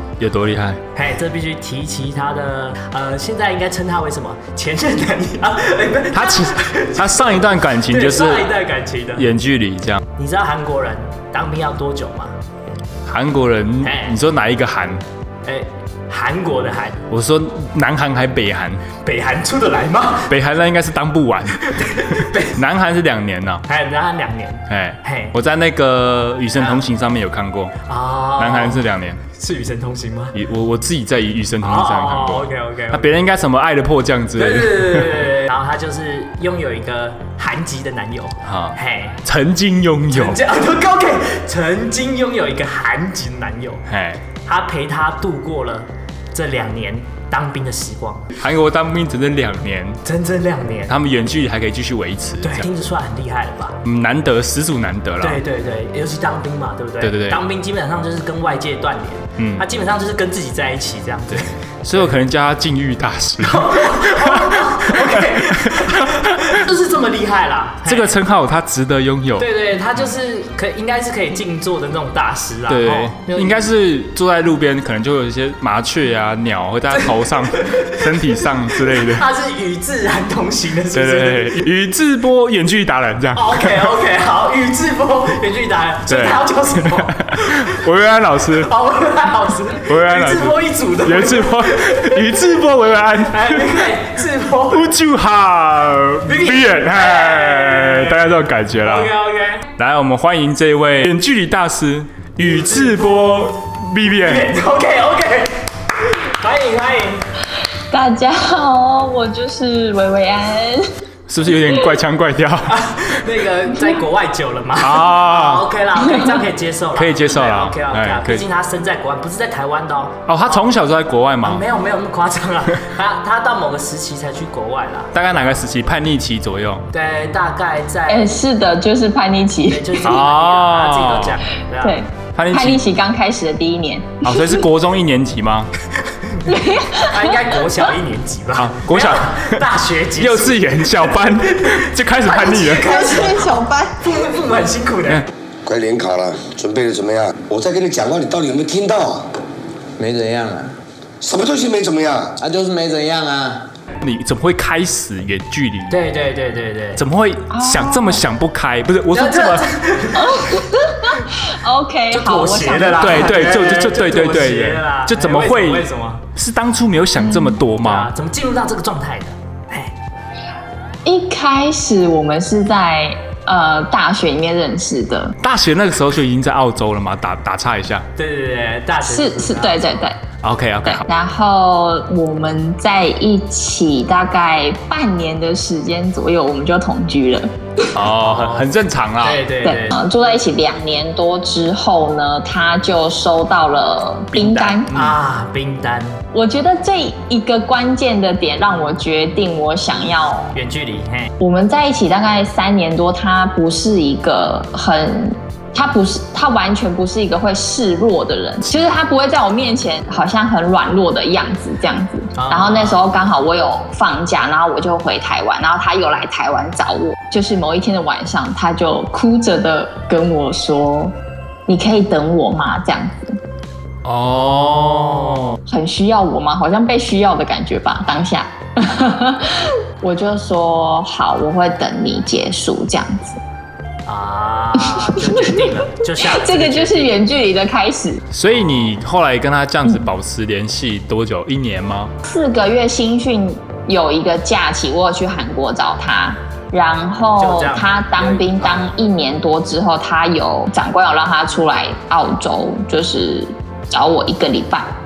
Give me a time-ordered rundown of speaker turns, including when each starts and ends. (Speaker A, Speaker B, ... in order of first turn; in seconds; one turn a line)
Speaker A: 0.2-0.8
Speaker B: 0.9-9.3
Speaker A: 6.1-8.5
Speaker A: 9.2-10.0
Speaker B: 10.2-12.4
Speaker A: 13.1-15.0
Speaker B: 13.8-14.2
Speaker B: 15.5-17.0
Speaker A: 17.1-18.8
Speaker B: 19.0-20.3
Speaker A: 20.3-23.6
Speaker B: 21.6-22.6
Speaker B: 23.7-25.3
Speaker A: 24.7-27.8
Speaker B: 26.6-26.8
Speaker B: 27.9-30.4
Speaker A: 28.4-29.2
Speaker A: 30.3-35.1
Speaker B: 31.6-33.2
Speaker B: 34.4-39.2
Speaker A: 38.5-40.4
Speaker B: 40.1-43.9
Speaker A: 43.9-44.2
Speaker B: 44.5-48.3
Speaker A: 48.4-50.0
Speaker B: 50.0-51.0
Speaker A: 50.9-52.7
Speaker B: 52.4-53.8
Speaker A: 53.8-55.4
Speaker B: 55.2-62.2
Speaker A: 57.0-57.4
Speaker A: 59.4-59.6
Speaker A: 61.3-66.6
Speaker B: 63.4-68.2
Speaker A: 67.8-69.5
Speaker B: 69.4-73.6
Speaker A: 72.7-79.2
Speaker B: 76.9-81.7
Speaker A: 80.9-83.7
Speaker B: 83.3-87.6
Speaker A: 86.1-86.4
Speaker A: 86.9-88.7
Speaker B: 88.5-92.2
Speaker A: 89.8-93.9
Speaker B: 93.3-94.9
Speaker A: 94.7-99.1
Speaker B: 96.3-99.7
Speaker A: 99.8-104.5
Speaker B: 102.4-103.5
Speaker B: 104.2-107.2
Speaker C: 107.9-110.9
Speaker A: 111.3-112.8
Speaker B: 112.7-120.7
Speaker A: 114.8-115.7
Speaker A: 117.0-118.5
Speaker A: 120.3-121.6
Speaker B: 121.4-125.5
Speaker A: 125.1-126.8
Speaker B: 126.9-128.4
Speaker C: 128.1-130.2
Speaker B: 129.7-132.0
Speaker A: 130.0-131.3
Speaker C: 131.8-134.6
Speaker A: 132.3-132.8
Speaker A: 134.2-135.7
Speaker C: 136.5-137.5
Speaker B: 137.0-145.2
Speaker A: 138.6-139.6
Speaker A: 140.2-142.9
Speaker C: 142.3-144.1
Speaker D: 145.7-149.3
Speaker E: 150.0-150.8
Speaker D: 151.2-152.4
Speaker E: 152.4-153.7
Speaker A: 154.0-156.0
Speaker B: 155.9-157.0
Speaker A: 157.0-159.7
Speaker C: 157.5-158.2
Speaker B: 159.1-160.5
Speaker C: 160.2-163.2
Speaker B: 162.1-166.2
Speaker A: 163.0-168.1
Speaker C: 167.2-167.6
Speaker B: 167.8-169.9
Speaker C: 171.1-175.4
Speaker A: 175.4-178.1
Speaker B: 178.2-179.9
Speaker C: 179.1-180.2
Speaker A: 180.4-181.1
Speaker C: 180.8-187.9
Speaker A: 187.9-189.4
Speaker B: 188.2-188.7
Speaker B: 189.2-190.0
Speaker C: 189.6-194.9
Speaker A: 194.3-195.2
Speaker B: 194.9-196.2
Speaker C: 196.3-200.5
Speaker B: 200.5-201.3
Speaker C: 201.4-221.2
Speaker B: 212.3-213.0
Speaker C: 221.7-223.4
Speaker A: 224.1-225.6
Speaker B: 224.4-225.6
Speaker C: 225.7-233.4
Speaker B: 234.1-237.2
Speaker C: 234.8-238.2
Speaker A: 238.3-242.1
Speaker C: 242.2-255.0
Speaker B: 247.4-248.8